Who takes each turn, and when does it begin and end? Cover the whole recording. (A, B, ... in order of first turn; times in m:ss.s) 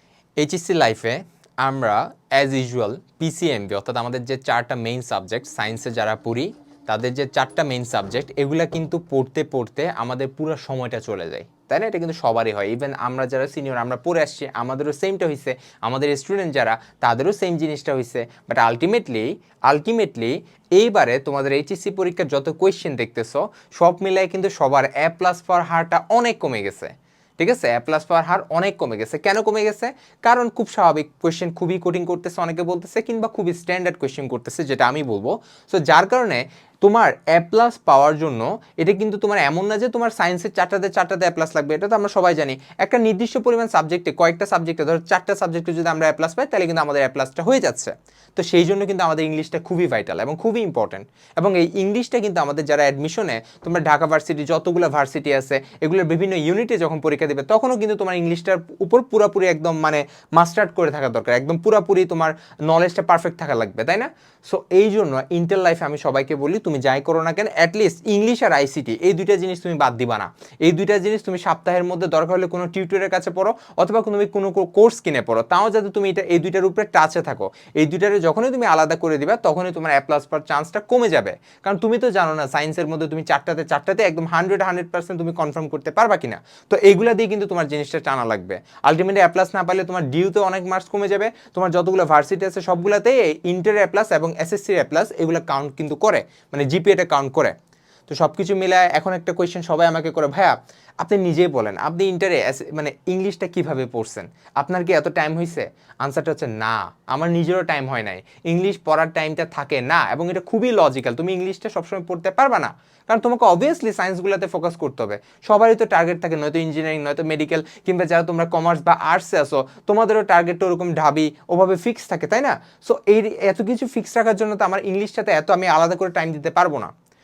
0:00.4-1:37.6 A
1:38.1-2:06.9 A